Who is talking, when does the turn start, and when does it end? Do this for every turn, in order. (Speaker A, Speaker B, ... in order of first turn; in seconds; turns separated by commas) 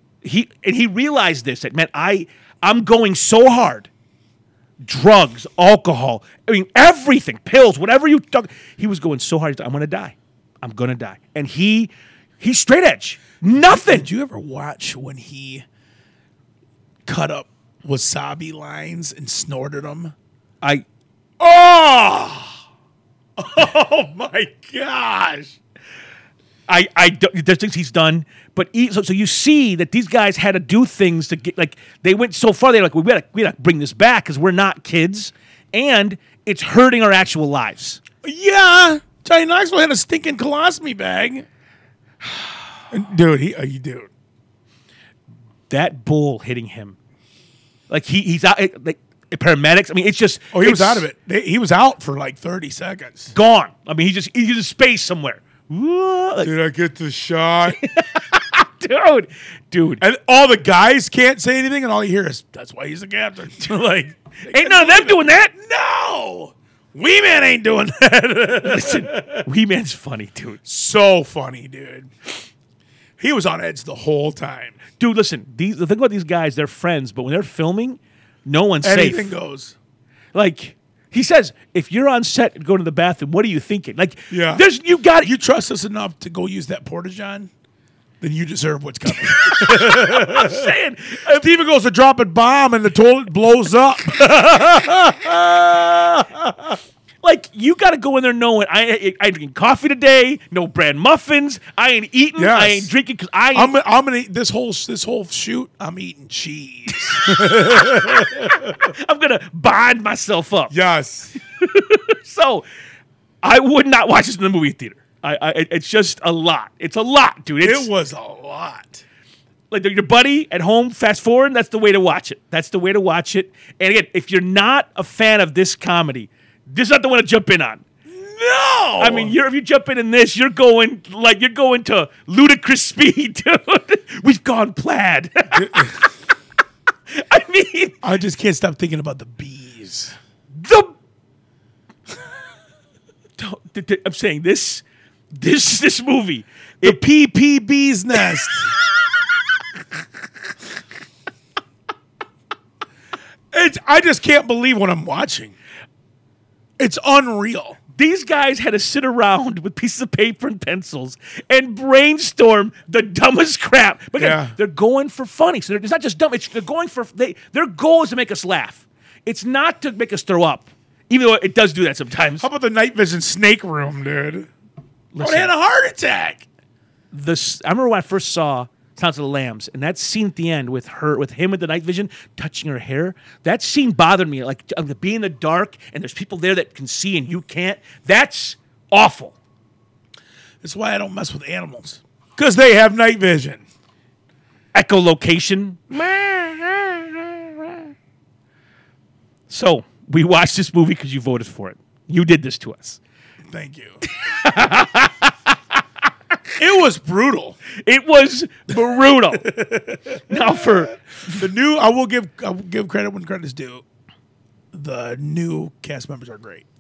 Speaker A: 0.2-3.9, Speaker A: 4.8-14.1, Speaker B: 13.5-15.7, Speaker B: 17.1-20.1, Speaker B: 21.4-22.6, Speaker B: 23.4-25.6, Speaker A: 26.7-38.0, Speaker B: 38.2-41.5, Speaker B: 42.9-44.1, Speaker A: 45.7-47.0, Speaker A: 47.9-51.1, Speaker B: 50.5-53.3, Speaker A: 53.3-56.5, Speaker B: 56.4-57.8, Speaker A: 57.7-60.0, Speaker B: 60.0-69.4, Speaker A: 64.5-65.5, Speaker A: 68.6-70.6, Speaker B: 70.7-72.1, Speaker B: 73.2-74.8, Speaker A: 75.0-79.3, Speaker B: 78.8-79.8, Speaker A: 80.3-85.3, Speaker B: 84.3-84.7, Speaker B: 85.2-87.5, Speaker B: 88.2-90.7, Speaker A: 89.2-91.5, Speaker B: 91.3-96.8, Speaker A: 97.2-103.7, Speaker B: 102.4-102.9, Speaker B: 103.5-108.9, Speaker A: 107.2-110.7, Speaker B: 110.7-111.4, Speaker A: 111.6-112.7, Speaker A: 113.4-117.9, Speaker B: 117.6-119.0, Speaker A: 119.7-127.8, Speaker B: 128.1-129.3, Speaker A: 129.0-136.1, Speaker B: 135.5-136.0, Speaker A: 137.1-138.0, Speaker B: 138.0-140.2, Speaker A: 140.5-140.9, Speaker A: 143.4-147.0, Speaker B: 146.8-148.7, Speaker B: 153.5-155.6, Speaker B: 156.8-157.8, Speaker A: 157.9-172.4, Speaker B: 164.2-164.6, Speaker B: 172.4-174.5, Speaker A: 175.1-175.5, Speaker B: 175.2-176.5, Speaker A: 177.1-189.4, Speaker B: 190.6-193.6, Speaker A: 194.7-197.4, Speaker A: 199.5-203.0, Speaker B: 203.5-204.0, Speaker A: 204.2-205.8, Speaker B: 206.6-207.6, Speaker A: 207.8-211.4, Speaker B: 209.5-213.8, Speaker B: 214.7-216.7